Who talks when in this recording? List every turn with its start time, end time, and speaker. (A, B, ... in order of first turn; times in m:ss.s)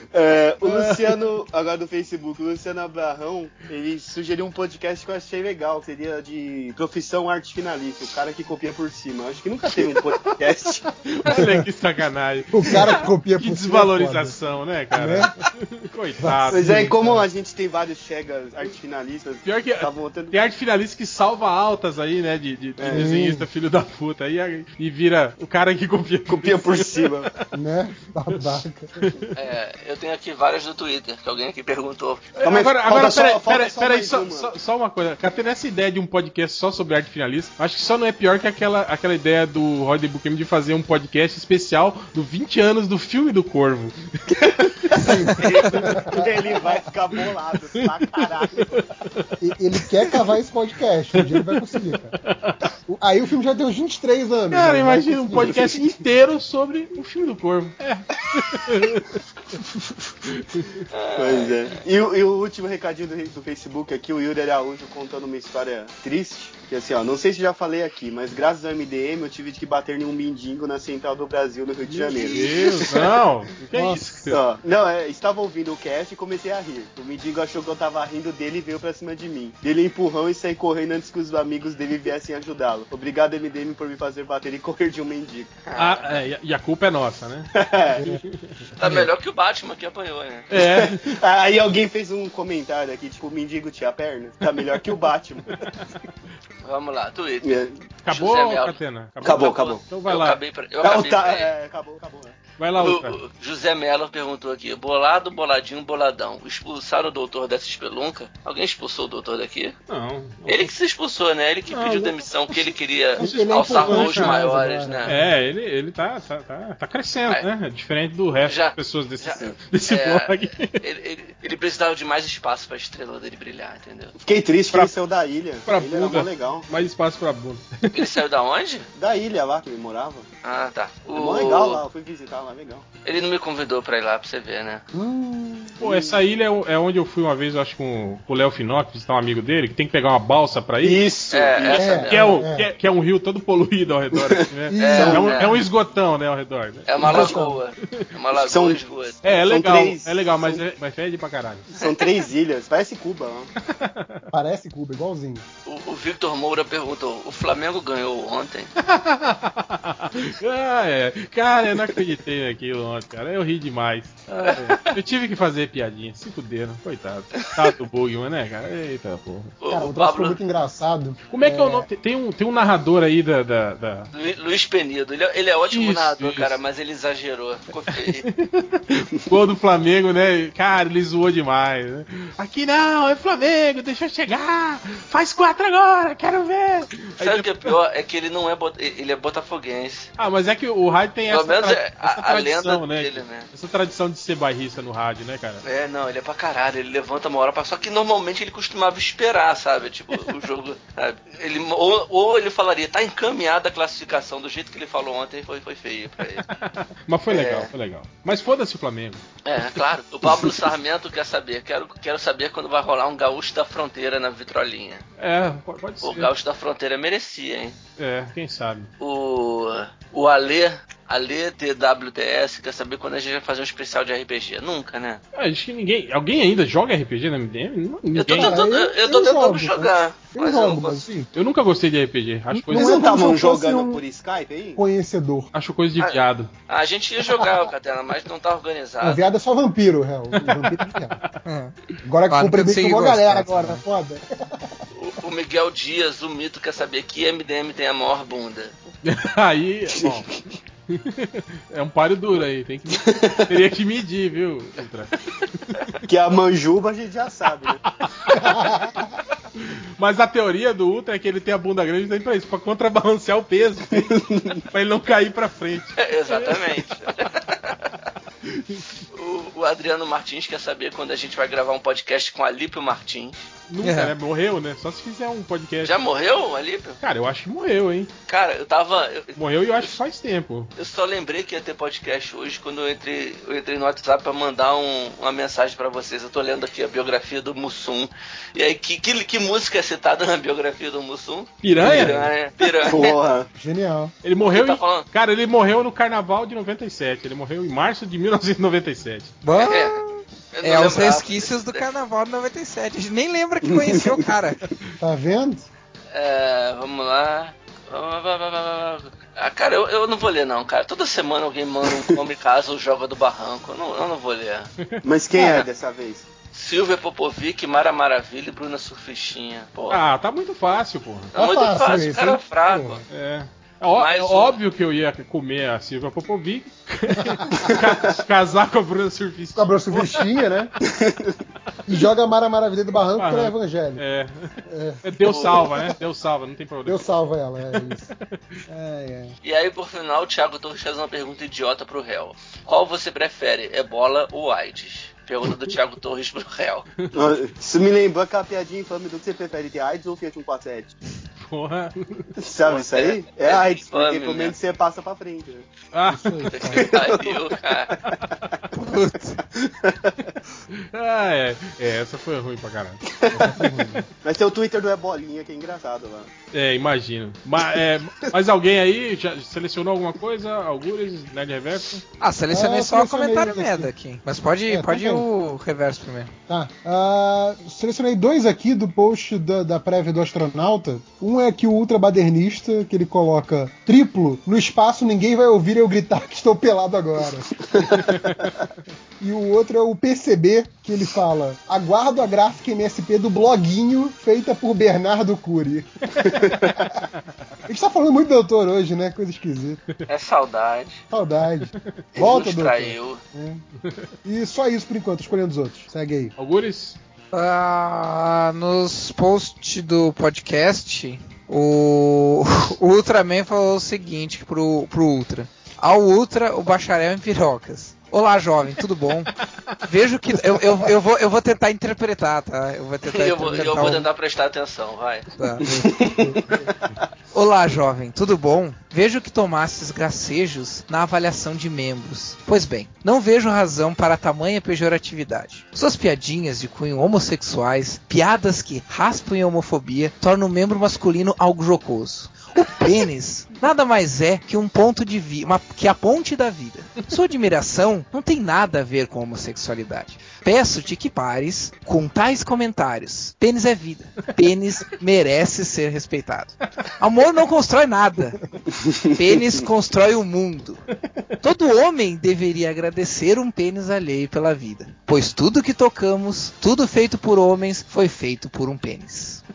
0:00.1-0:10.9 A
0:00.6-0:01.0 B
0:11.1-0:17.2 B
0:11.3-0:11.6 C
0:12.5-0:14.4 C
0:14.9-0:15.3 C
0:16.2-0:17.2 C
0:16.5-0:20.4 A
0:19.4-0:27.4 B
0:22.8-0:23.1 A
0:22.9-0:23.5 C
0:26.3-0:27.3 A
0:27.5-0:28.9 C
0:29.0-0:29.3 B
0:29.4-0:32.3 D
0:32.4-0:46.0 B
0:32.4-0:34.5 A
0:44.9-0:48.7 A
0:44.9-0:46.3 C
0:47.8-0:49.4 B
0:49.4-0:52.1 C
0:51.2-0:52.7 B
0:52.9-0:55.7 C
0:54.5-0:59.2 B
1:00.2-1:00.8 B
1:00.9-1:01.8 D
1:01.2-1:12.6 A
1:11.9-1:13.0 C
1:12.3-1:14.4 B
1:13.7-1:14.3 C
1:14.3-1:25.6 A
1:25.7-1:26.0 D
1:25.8-1:27.5 B
1:27.5-1:28.1 A
1:28.0-1:29.0 B
1:28.8-1:30.5 D
1:30.5-1:31.2 B
1:30.6-1:35.6 A
1:35.5-1:36.1 B
1:36.6-1:41.5 D
1:37.4-1:37.7 A
1:38.0-1:40.4 B
1:39.2-1:39.8 A
1:40.8-1:42.4 A
1:42.6-1:43.2 B
1:42.8-1:49.8 D
1:49.9-1:50.7 B
1:50.5-1:55.1 D
1:51.7-1:52.6 B
1:53.2-1:55.3 C
1:53.8-1:54.4 B
1:55.1-2:00.8 B
1:58.5-2:04.1 D
2:04.2-2:06.7 A
2:05.7-2:08.0 B
2:07.9-2:08.9 D
2:09.0-2:10.3 A
2:10.4-2:11.8 D
2:11.1-2:12.9 A
2:13.0-2:14.8 D
2:14.9-2:15.8 C
2:15.8-2:21.1 B
2:15.8-2:16.2 A
2:20.8-2:22.1 A
2:21.3-2:22.2 D
2:21.7-2:22.7 C
2:22.1-2:27.3 B
2:24.3-2:25.4 A
2:24.7-2:25.3 C
2:24.8-2:25.6 D
2:26.9-2:29.2 D
2:27.0-2:27.6 C
2:28.3-2:30.6 A
2:29.2-2:31.7 B
2:31.7-2:33.5 A
2:31.8-2:32.0 D
2:33.6-2:34.3 B
2:34.3-2:35.4 C
2:35.7-2:38.7 D
2:38.8-2:49.6 B
2:44.4-2:44.9 D
2:49.6-2:50.4 D
2:49.7-2:51.9 C
2:51.3-2:54.1 B
2:54.1-2:58.3 D
2:55.7-2:56.6 B
2:58.0-3:07.7 B
3:07.2-3:10.1 D
3:10.2-3:15.6 B
3:11.3-3:13.5 D
3:15.6-3:26.4 D
3:26.4-3:29.2 B
3:27.3-3:27.7 D
3:29.4-3:35.0 D
3:35.2-3:36.3 B
3:36.0-3:37.8 D
3:38.0-3:38.9 B
3:39.0-3:45.2 D
3:45.3-3:48.6 B
3:48.2-3:51.0 D
3:48.3-3:51.3 C
3:51.3-3:53.1 B
3:52.5-3:54.0 C
3:52.7-3:54.8 A
3:54.8-3:55.5 C
3:55.5-3:56.5 B
3:56.7-3:59.3 D
3:59.0-4:01.2 C
4:01.4-4:01.8 E
4:02.0-4:04.7 C
4:02.3-4:03.8 E
4:05.0-4:08.8 D
4:09.0-4:10.3 B
4:10.0-4:10.4 A
4:10.9-4:16.0 B
4:13.0-4:13.5 A
4:16.1-4:17.8 A
4:18.0-4:18.7 B
4:19.6-4:26.8 B
4:24.0-4:24.6 A
4:26.0-4:28.0 D
4:28.4-4:28.9 B
4:29.1-4:33.5 D
4:33.7-4:36.0 B
4:33.8-4:34.1 E
4:35.8-4:37.0 D
4:37.0-4:38.1 B
4:38.3-4:40.0 D
4:39.4-4:40.7 B
4:40.8-4:53.1 D
4:51.6-4:52.3 B
4:52.9-4:53.5 A
4:53.6-4:54.1 C
4:54.2-4:59.4 B
4:54.4-4:55.1 D
4:59.4-5:04.6 E
4:59.6-5:00.0 D
5:00.5-5:01.8 D
5:03.7-5:04.2 A
5:05.0-5:05.7 C
5:06.1-5:14.7 D
5:15.0-5:16.3 A
5:15.4-5:15.7 D
5:16.5-5:20.0 D
5:19.9-5:21.3 B
5:21.4-5:23.0 D
5:21.4-5:23.0 C
5:23.1-5:30.3 B
5:23.9-5:24.6 D
5:27.2-5:27.6 C
5:29.6-5:30.7 C
5:30.9-5:31.4 A
5:31.9-5:34.0 C
5:33.2-5:37.0 B
5:34.7-5:35.0 C
5:35.3-5:35.6 D
5:36.9-5:38.1 C
5:38.7-5:39.4 C
5:39.4-5:46.9 D
5:47.1-5:51.0 A
5:51.4-5:52.3 B
5:52.4-5:55.7 A
5:52.7-5:54.6 D
5:55.9-5:56.7 B
5:56.1-5:56.8 C
5:56.5-5:58.0 D
5:56.7-5:57.4 A
5:58.0-5:58.6 B
5:58.7-5:59.4 E
5:59.8-6:00.2 A
6:00.7-6:04.0 B
6:03.2-6:03.5 A
6:03.4-6:04.0 C
6:04.2-6:06.3 A
6:06.5-6:12.0 B
6:12.2-6:16.3 E
6:12.5-6:13.9 C
6:14.7-6:15.2 C
6:16.5-6:27.6 C
6:27.8-6:28.0 A
6:27.8-6:28.5 B
6:29.2-6:37.0 C
6:37.7-6:39.8 C
6:40.1-6:41.0 D
6:41.1-6:43.6 C
6:42.1-6:43.2 D
6:43.8-6:44.1 B
6:44.2-6:46.3 C
6:46.4-6:47.0 B
6:47.3-7:04.1 E
7:03.1-7:05.3 D
7:05.4-7:06.4 E
7:05.7-7:06.7 A
7:07.3-7:38.4 E
7:39.1-7:40.8 E
7:41.4-7:49.4 E